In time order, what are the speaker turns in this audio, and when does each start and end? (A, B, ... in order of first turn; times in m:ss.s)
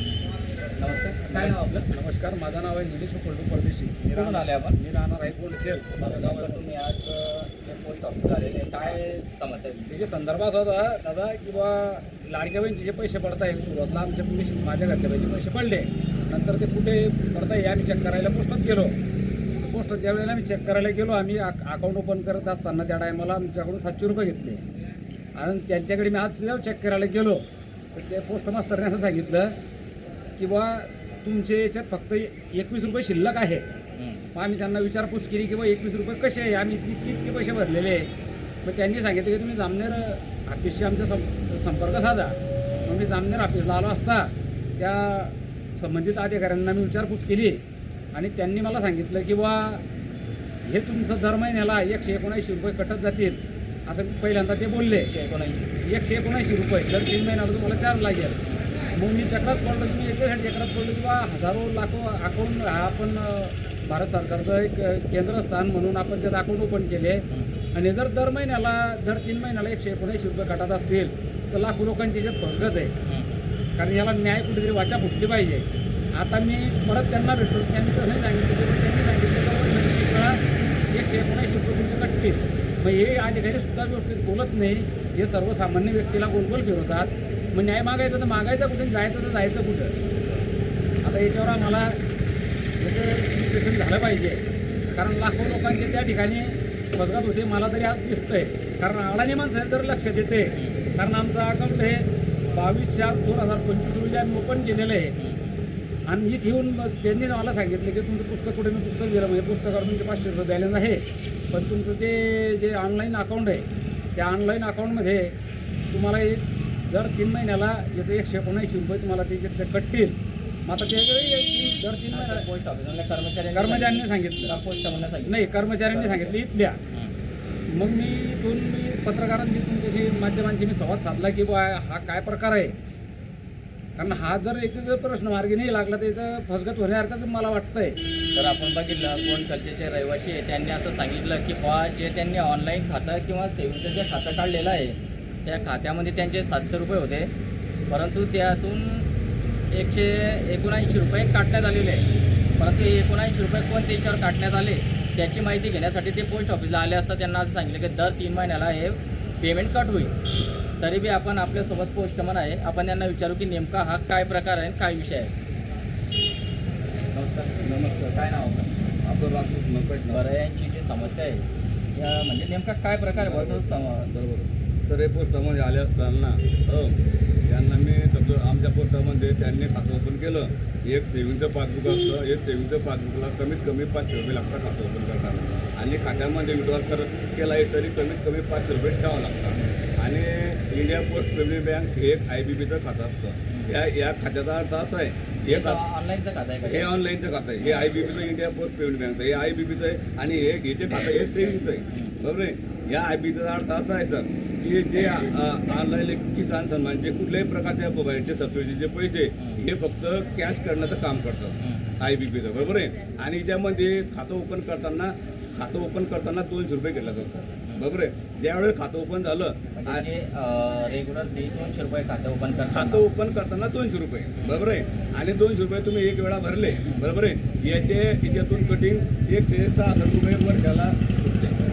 0:00.7-0:01.9 A
0:01.3-0:06.6 B
0:04.1-0:04.8 A
0:06.0-0:10.0 A
0:09.9-0:18.9 B
0:19.6-0:24.6 B
0:25.4-0:27.4 B
0:27.9-0:29.5 B
0:30.4-0:33.7 B
0:34.0-0:34.2 A
0:34.3-0:38.1 B
0:38.6-0:42.3 B
0:42.8-0:47.6 B
0:48.1-0:49.8 B
0:50.6-0:55.1 B
0:54.9-0:55.6 A
0:55.9-0:58.4 B
0:58.9-1:12.9 B
1:07.3-1:07.7 A
1:13.1-1:13.4 A
1:13.8-1:20.4 B
1:20.9-1:29.9 B
1:31.0-1:32.0 B
1:32.8-1:45.1 B
1:40.5-1:40.8 A
1:45.2-1:45.6 A
1:46.1-1:53.6 B
1:54.1-1:55.3 B
1:55.9-2:02.4 B
2:02.1-2:06.4 A
2:03.6-2:04.5 B
2:05.3-2:06.8 B
2:07.7-2:12.8 B
2:14.0-2:18.0 B
2:18.3-2:27.3 A
2:27.9-2:29.1 A
2:29.7-2:32.1 A
2:32.6-2:40.1 A
2:40.8-2:45.3 A
2:47.1-2:48.8 A
2:49.0-2:50.2 C
2:50.1-2:54.1 A
2:53.1-3:15.8 C
3:13.5-3:13.8 A
3:15.4-3:16.9 A
3:16.6-3:40.0 C
3:29.4-3:29.6 A
3:31.6-3:31.9 A
3:39.8-3:43.0 A
3:42.7-3:51.5 C
3:44.4-3:44.6 A